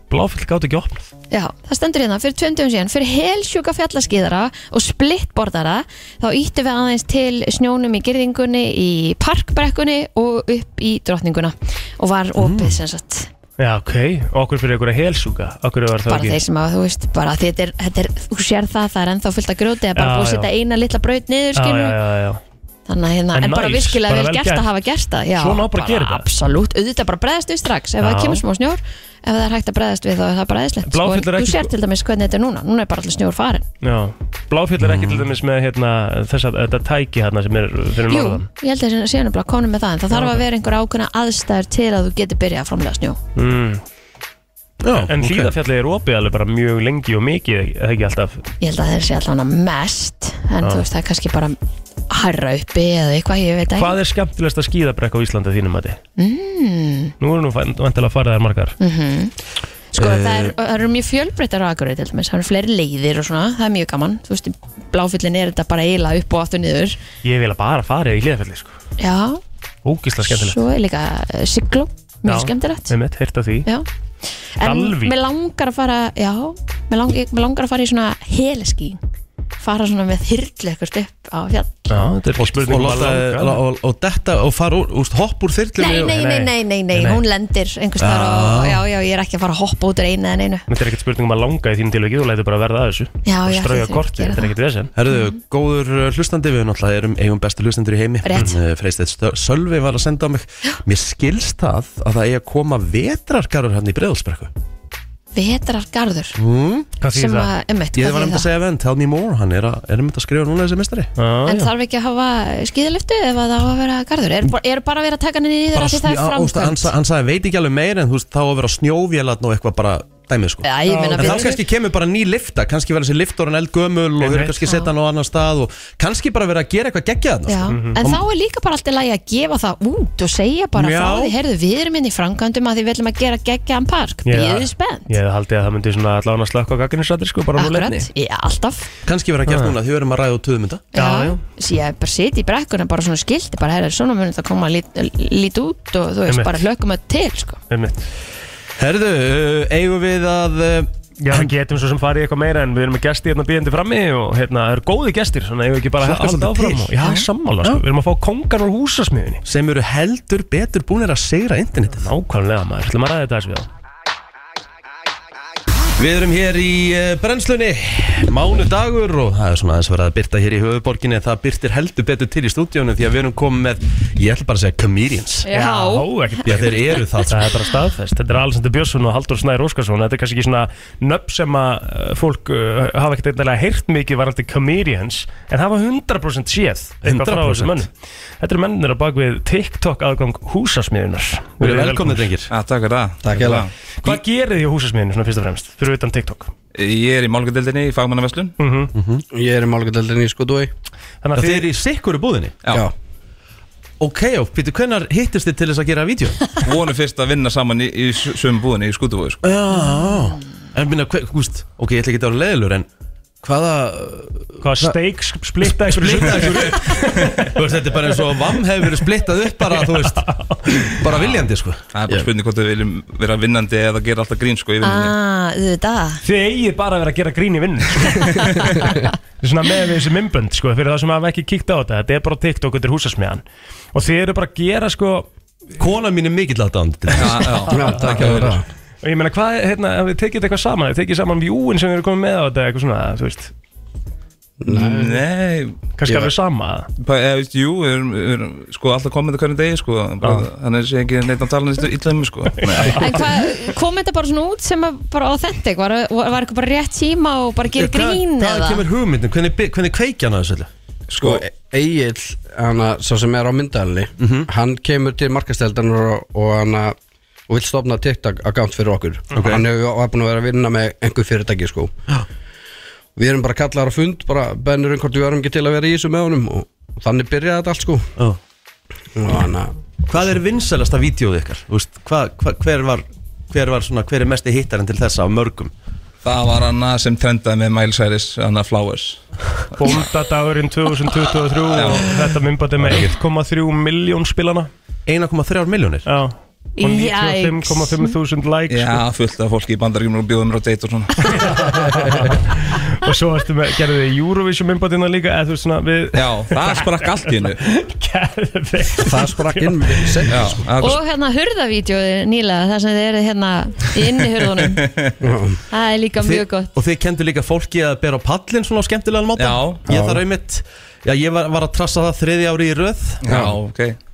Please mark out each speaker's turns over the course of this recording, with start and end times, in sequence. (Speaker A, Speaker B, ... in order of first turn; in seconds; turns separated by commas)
Speaker A: 0.1-1.1, Speaker B: 1.3-13.3, Speaker C: 12.4-12.8, Speaker A: 13.6-16.4, Speaker B: 16.1-22.0, Speaker A: 19.9-20.5, Speaker A: 21.5-22.4, Speaker B: 22.9-33.6, Speaker A: 23.3-24.6, Speaker A: 25.3-26.2, Speaker A: 28.0-28.4, Speaker A: 30.9-31.7, Speaker A: 33.8-38.5, Speaker C: 34.8-35.3, Speaker B: 38.1-43.2, Speaker A: 40.1-40.4, Speaker A: 43.4-43.8, Speaker C: 44.8-45.5, Speaker A: 45.0-48.4, Speaker B: 48.6-51.6, Speaker B: 52.1-53.9, Speaker A: 53.8-56.0, Speaker B: 56.2-57.1, Speaker A: 57.2-58.8, Speaker B: 58.8-59.3, Speaker B: 59.9-67.0, Speaker C: 60.0-60.5, Speaker A: 67.2-68.8, Speaker B: 69.0-69.4, Speaker A: 69.8-70.6, Speaker B: 70.3-72.9, Speaker A: 72.2-73.7, Speaker B: 74.5-79.0, Speaker A: 74.6-75.1, Speaker B: 79.6-82.0, Speaker A: 81.9-83.6, Speaker C: 82.4-86.2, Speaker B: 85.8-90.7, Speaker A: 86.0-87.2, Speaker C: 88.0-88.8, Speaker A: 90.7-94.9, Speaker B: 93.2-94.5, Speaker C: 94.9-104.5, Speaker B: 95.1-95.3, Speaker B: 98.2-98.5, Speaker B: 105.3-106.4, Speaker C: 106.3-106.9, Speaker A: 107.0-107.5, Speaker B: 107.1-108.5, Speaker C: 107.9-111.1, Speaker A: 111.2-111.7, Speaker B: 111.5-116.9, Speaker C: 115.7-128.2, Speaker B: 120.6-121.6, Speaker A: 120.8-121.5, Speaker A: 124.2-124.6, Speaker B: 127.5-135.2, Speaker A: 127.7-128.0, Speaker C: 130.8-131.3, Speaker A: 134.2-138.1, Speaker B: 137.6-138.9, Speaker C: 139.1-140.9, Speaker A: 139.5-139.7, Speaker A: 140.9-141.4, Speaker B: 140.9-147.6, Speaker A: 146.3-146.6, Speaker A: 147.7-148.1, Speaker C: 148.8-151.5, Speaker A: 151.2-159.4, Speaker C: 156.0-156.9, Speaker C: 159.4-162.1, Speaker A: 161.9-163.7, Speaker C: 166.0-175.5, Speaker B: 175.4-176.1, Speaker A: 175.5-192.3, Speaker C: 176.4-177.5, Speaker C: 187.0-187.9, Speaker C: 191.6-192.5, Speaker D: 192.5-193.7, Speaker E: 193.2-193.7, Speaker A: 194.0-196.5, Speaker D: 196.7-198.5, Speaker A: 198.6-198.9, Speaker C: 198.9-199.2, Speaker E: 199.3-200.7, Speaker A: 201.2-201.7, Speaker C: 201.3-202.6, Speaker C: 204.0-206.4, Speaker D: 206.6-209.4, Speaker C: 209.4-212.9, Speaker C: 213.4-214.9, Speaker A: 214.6-217.2, Speaker C: 215.6-221.9, Speaker D: 217.2-217.5, Speaker A: 219.7-220.9, Speaker D: 221.9-225.1, Speaker B: 224.8-226.2, Speaker A: 226.2-228.4, Speaker A: 229.4-235.3, Speaker C: 235.8-237.7, Speaker D: 237.1-238.6, Speaker E: 237.7-238.6, Speaker A: 239.0-243.5, Speaker E: 244.6-245.2, Speaker D: 244.7-245.9, Speaker A: 246.0-246.9, Speaker D: 247.0-253.3, Speaker B: 252.8-258.8, Speaker C: 257.8-260.7, Speaker D: 261.1-261.4, Speaker E: 261.1-266.9, Speaker C: 264.2-264.5, Speaker E: 267.5-271.9, Speaker C: 269.3-269.6, Speaker E: 273.2-278.1, Speaker E: 279.1-279.7, Speaker C: 280.1-285.7, Speaker D: 286.2-289.2, Speaker A: 289.8-294.7, Speaker D: 291.7-292.1, Speaker C: 292.8-293.1, Speaker C: 295.1-296.1, Speaker A: 296.1-299.0, Speaker B: 296.8-298.1, Speaker D: 298.7-302.3, Speaker A: 301.4-310.2, Speaker D: 306.1-307.6, Speaker E: 309.0-310.7, Speaker D: 310.3-311.0, Speaker B: 310.8-314.9, Speaker D: 314.6-315.2, Speaker E: 315.2-315.6, Speaker B: 315.7-316.7, Speaker C: 316.2-323.3, Speaker D: 319.4-319.8, Speaker E: 319.9-320.2, Speaker D: 323.2-324.0, Speaker E: 323.3-323.6